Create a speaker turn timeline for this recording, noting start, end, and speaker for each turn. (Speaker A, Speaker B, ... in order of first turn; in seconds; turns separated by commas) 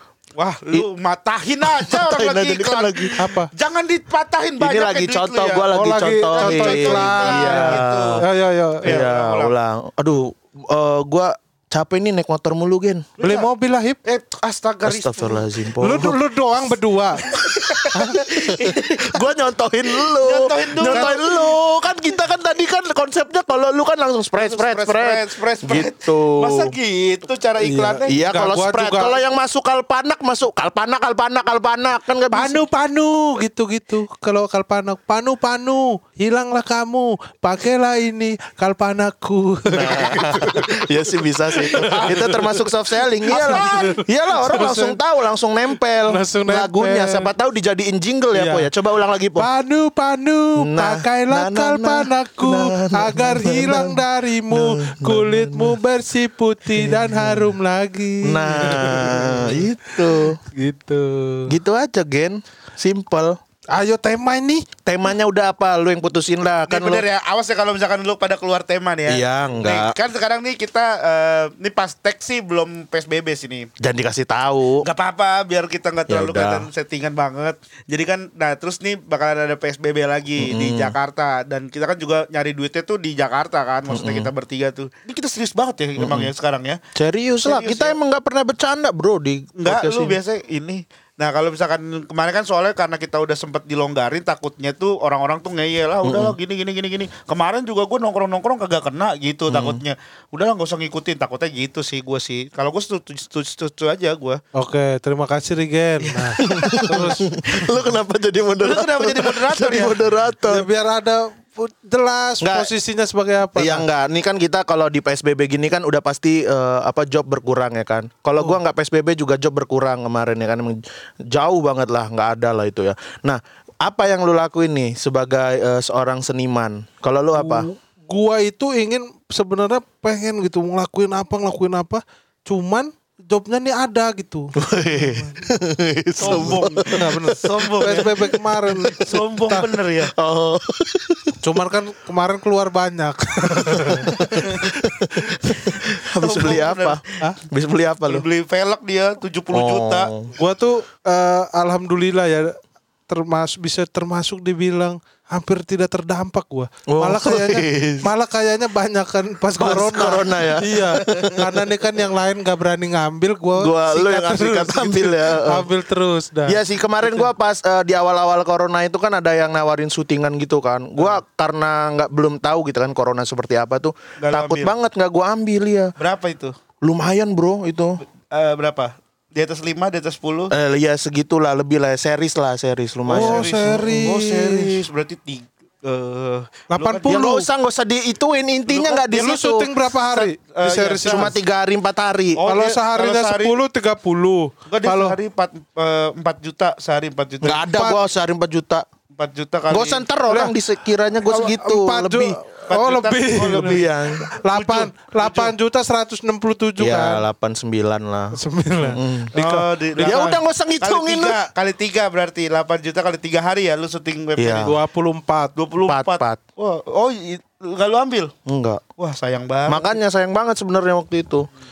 Speaker A: 0.4-8.2, Speaker B: 1.7-3.2, Speaker C: 3.2-3.5, Speaker B: 4.6-8.2, Speaker C: 5.7-9.0, Speaker A: 8.8-9.5, Speaker B: 8.8-13.1, Speaker A: 13.2-13.5, Speaker C: 13.2-14.0, Speaker A: 14.1-15.5, Speaker B: 14.8-16.2, Speaker C: 15.8-17.2, Speaker A: 17.2-19.3, Speaker C: 17.9-18.2, Speaker B: 18.3-26.7, Speaker A: 19.9-21.6, Speaker C: 20.9-21.1, Speaker A: 24.4-28.2, Speaker C: 27.6-29.2, Speaker B: 28.1-32.6, Speaker C: 32.3-40.7, Speaker B: 39.7-49.5, Speaker C: 41.6-42.7, Speaker C: 43.3-45.0, Speaker A: 43.3-43.7, Speaker C: 46.1-47.3, Speaker C: 48.3-48.7, Speaker C: 49.4-59.6, Speaker B: 50.6-55.8, Speaker B: 56.7-57.5, Speaker B: 58.2-60.4, Speaker C: 60.5-61.5, Speaker B: 61.5-63.4, Speaker C: 63.7-64.7, Speaker B: 64.9-67.0, Speaker A: 66.7-73.7, Speaker B: 69.1-70.0, Speaker B: 73.8-74.9, Speaker A: 74.8-86.8, Speaker B: 76.1-76.7, Speaker B: 80.4-81.0, Speaker B: 83.9-84.3, Speaker B: 86.0-86.3, Speaker B: 87.0-90.2, Speaker A: 87.5-88.0, Speaker A: 89.6-104.4, Speaker B: 96.0-96.3, Speaker B: 99.5-99.8, Speaker C: 104.5-107.2, Speaker A: 106.4-107.1, Speaker B: 106.4-110.7, Speaker A: 108.6-110.1, Speaker C: 110.4-113.9, Speaker B: 112.4-112.7, Speaker B: 113.6-120.8, Speaker B: 121.3-127.7, Speaker C: 127.3-135.5, Speaker B: 134.6-137.3, Speaker A: 136.2-140.1, Speaker C: 136.2-139.7, Speaker B: 140.2-141.4, Speaker C: 141.4-144.1, Speaker A: 143.7-144.7, Speaker B: 144.0-148.2, Speaker A: 145.3-147.0, Speaker A: 148.1-150.1, Speaker B: 149.5-150.3, Speaker C: 150.4-152.6, Speaker C: 153.1-167.3, Speaker B: 156.9-158.1, Speaker B: 159.6-161.6, Speaker B: 163.6-165.7, Speaker B: 166.5-175.9, Speaker A: 174.2-174.7, Speaker A: 176.0-176.6, Speaker B: 176.8-178.0, Speaker A: 178.2-180.5, Speaker B: 180.5-184.2, Speaker A: 183.1-187.2, Speaker C: 183.1-184.8, Speaker C: 186.7-187.5, Speaker B: 187.1-189.7, Speaker A: 188.7-189.3, Speaker C: 189.1-191.4, Speaker A: 190.1-191.3, Speaker B: 191.0-192.4, Speaker A: 192.4-193.5, Speaker C: 192.5-195.2, Speaker A: 194.7-197.7, Speaker B: 197.4-198.8, Speaker C: 197.7-198.0, Speaker A: 199.2-200.1, Speaker B: 199.7-202.4, Speaker C: 200.3-200.6, Speaker C: 201.2-207.3, Speaker A: 202.7-203.9, Speaker B: 203.6-204.3, Speaker A: 204.4-205.5, Speaker B: 206.8-209.3, Speaker C: 208.3-210.3, Speaker A: 209.4-214.7, Speaker B: 210.0-211.4, Speaker B: 214.4-214.8, Speaker C: 214.6-215.5, Speaker A: 215.6-218.3, Speaker B: 215.9-216.4, Speaker B: 218.5-218.8, Speaker A: 219.0-220.0, Speaker B: 219.7-221.5